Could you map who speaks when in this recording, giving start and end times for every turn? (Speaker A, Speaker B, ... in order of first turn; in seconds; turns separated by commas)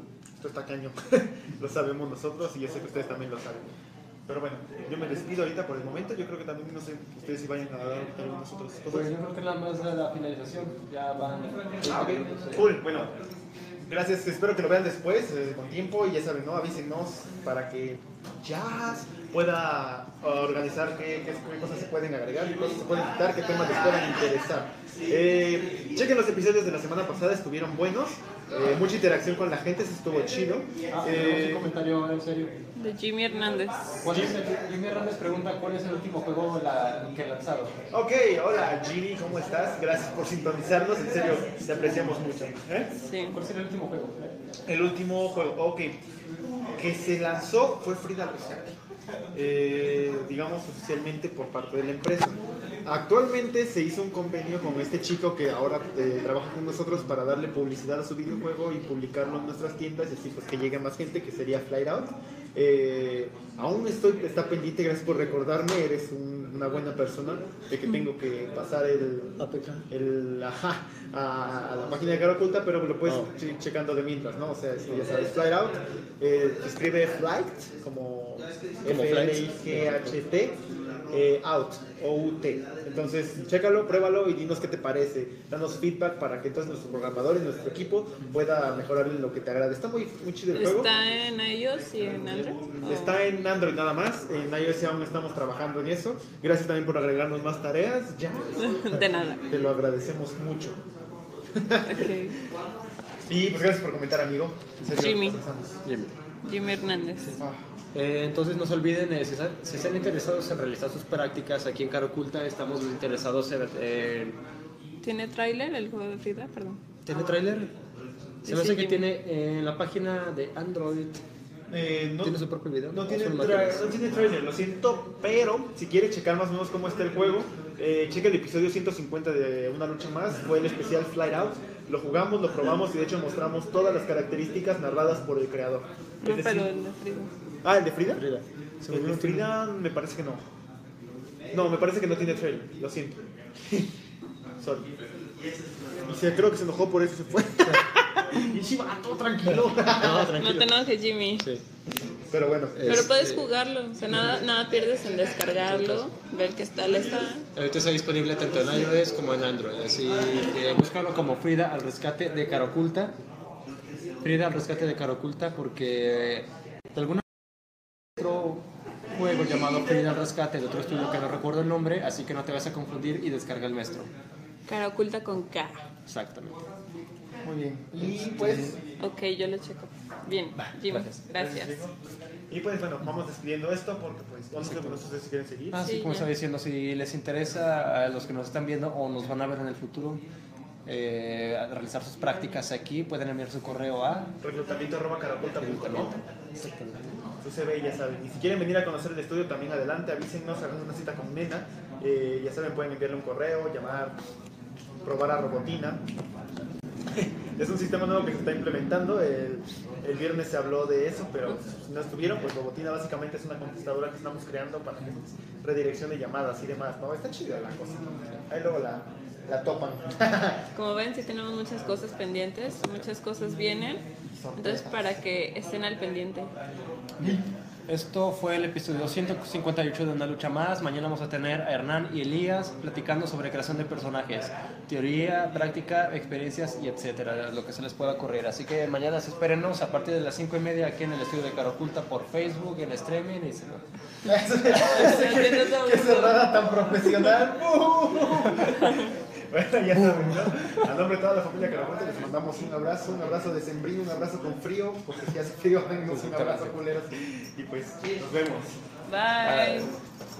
Speaker A: 0.4-3.7, Speaker A: 4.3-9.1, Speaker B: 8.9-12.8, Speaker A: 11.8-13.1, Speaker A: 13.8-31.7, Speaker B: 30.9-32.5, Speaker C: 32.7-34.0, Speaker B: 34.0-37.7, Speaker A: 34.0-34.4, Speaker A: 37.9-42.9, Speaker C: 43.0-43.4, Speaker B: 43.3-44.4, Speaker A: 44.7-46.0, Speaker A: 46.7-48.7, Speaker A: 49.3-80.6, Speaker B: 69.4-69.8, Speaker B: 73.0-73.3, Speaker B: 74.8-75.1, Speaker B: 78.8-80.2, Speaker A: 81.1-90.9, Speaker C: 90.5-93.2, Speaker A: 92.8-100.8, Speaker C: 98.6-99.4, Speaker A: 101.5-102.2, Speaker C: 101.8-102.4, Speaker A: 103.3-105.8, Speaker C: 104.9-105.4, Speaker B: 105.8-106.1, Speaker C: 106.4-107.4, Speaker A: 107.3-107.6, Speaker B: 107.9-114.4, Speaker C: 115.0-116.8, Speaker B: 117.0-117.7, Speaker C: 118.4-119.0, Speaker B: 118.4-121.2, Speaker A: 121.7-136.7, Speaker B: 122.2-123.9, Speaker C: 136.2-137.3, Speaker A: 137.6-138.2, Speaker B: 138.1-139.5, Speaker A: 138.9-140.4, Speaker A: 141.5-143.9, Speaker A: 144.6-144.9, Speaker A: 146.0-150.6, Speaker B: 149.5-150.7, Speaker C: 150.3-151.4, Speaker B: 151.4-151.6, Speaker A: 152.3-153.1, Speaker B: 152.7-153.5, Speaker C: 152.8-157.5, Speaker B: 155.6-156.1, Speaker B: 157.5-163.1, Speaker B: 164.2-167.2, Speaker B: 168.2-174.1, Speaker C: 174.7-175.9, Speaker B: 176.1-176.6, Speaker A: 177.4-178.8, Speaker B: 178.0-178.8, Speaker C: 179.0-181.8, Speaker B: 180.6-181.2, Speaker A: 181.3-181.9, Speaker A: 182.5-185.9, Speaker B: 184.6-185.0, Speaker B: 185.7-190.2, Speaker C: 185.8-186.3, Speaker B: 190.8-194.3, Speaker A: 194.4-196.1, Speaker B: 195.6-197.2, Speaker A: 197.4-204.2, Speaker A: 205.0-206.0, Speaker A: 207.1-220.6, Speaker C: 220.7-224.0, Speaker A: 224.3-225.2, Speaker C: 224.6-226.5, Speaker B: 227.2-243.8, Speaker A: 244.2-258.8, Speaker C: 244.7-246.7, Speaker C: 248.7-249.1, Speaker B: 250.5-250.8, Speaker B: 256.1-256.8, Speaker C: 259.1-259.9, Speaker B: 259.4-259.9